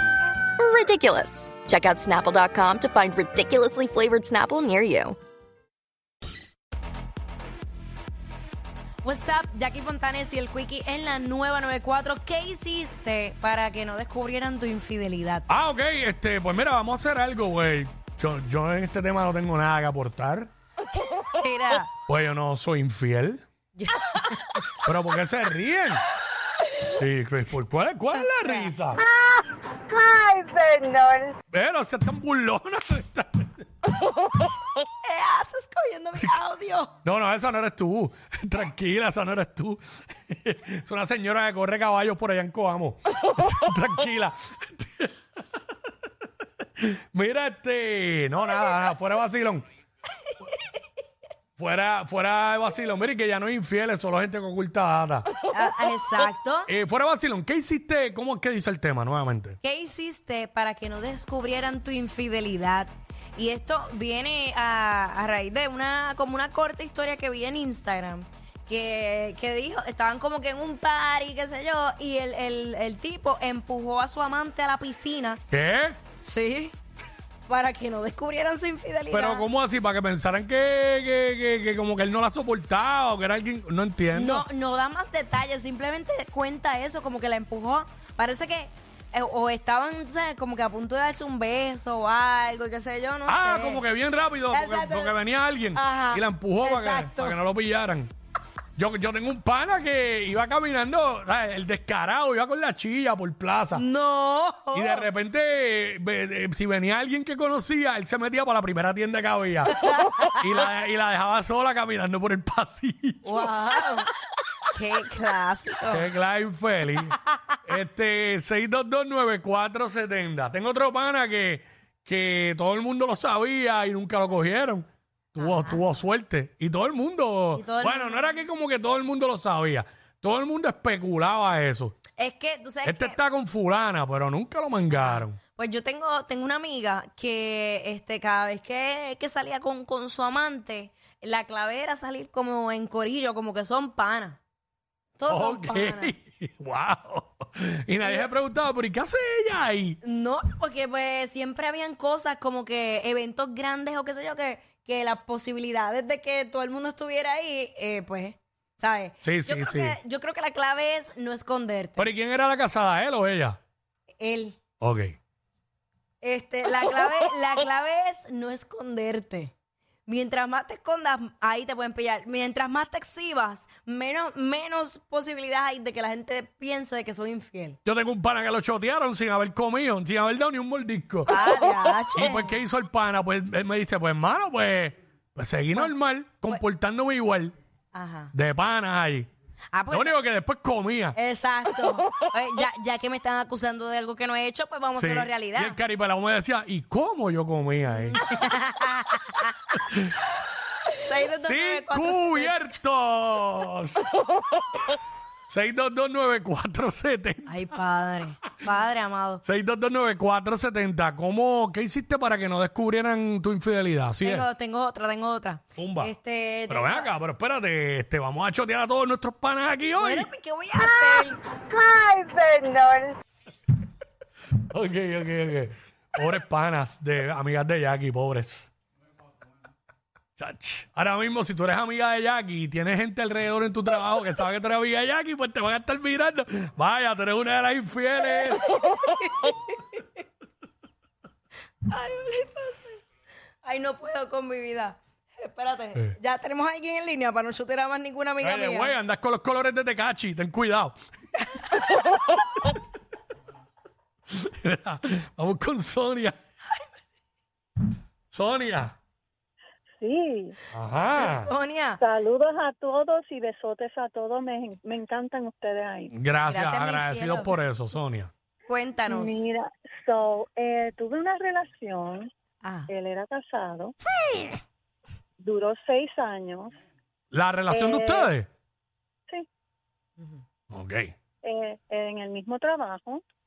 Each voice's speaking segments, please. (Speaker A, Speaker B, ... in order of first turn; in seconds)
Speaker A: 0.6-5.2
Speaker B: 9.0-15.5, 21.1-21.9, 23.8-24.6, 28.2-28.7, 34.8-36.9, 55.5-56.7, 59.6-75.4, 76.2-76.8, 77.5-79.5, 84.1-93.8, 94.5-95.2, 95.7-97.4, 103.7-105.1, 109.8-110.3, 113.2-114.1, 114.7-116.0, 125.4-125.8, 127.5-128.4, 132.2-133.2, 134.9-144.4, 145.2-146.1, 148.0-148.3, 150.0-162.1, 164.2-164.6, 166.2-169.5, 170.1-177.8, 181.3-182.6, 187.9-188.3, 189.7-190.2, 191.2-195.8, 198.1-199.7, 200.9-202.7, 207.5-209.4, 214.2-217.1, 220.0-221.4, 238.7-239.6, 241.8-243.0, 243.6-249.0, 261.2-262.0, 266.5-267.6, 268.7-269.5, 272.6-272.9
Speaker C: 15.5-20.5, 22.1-23.4, 24.8-26.0, 26.8-29.0, 31.5-33.6, 37.0-45.1, 46.8-49.6, 51.6-55.3, 56.7-59.6, 75.5-76.0, 79.1-84.5, 93.3-98.1, 98.8-103.8, 104.7-109.8, 110.3-113.5, 115.9-117.2, 117.7-132.0, 132.8-135.4, 145.3-150.0, 159.2-160.0, 162.0-163.6, 164.8-165.2, 177.8-181.4, 182.2-187.5, 188.3-189.3, 189.9-191.2, 194.9-198.2, 201.4-204.1, 205.5-207.8, 209.4-214.5, 215.8-216.1, 216.7-220.3, 224.7-228.7, 230.4-238.7, 248.4-251.0, 254.3-256.4, 258.3-258.9, 260.7-261.5, 266.1-268.3, 277.3-278.5, 280.7-281.1
Speaker D: 29.0-31.4, 220.8-223.2
Speaker E: 260.0-260.6, 262.0-266.1, 269.1-272.3, 272.9-273.9, 275.4-276.7, 277.7-278.3, 281.4-283.2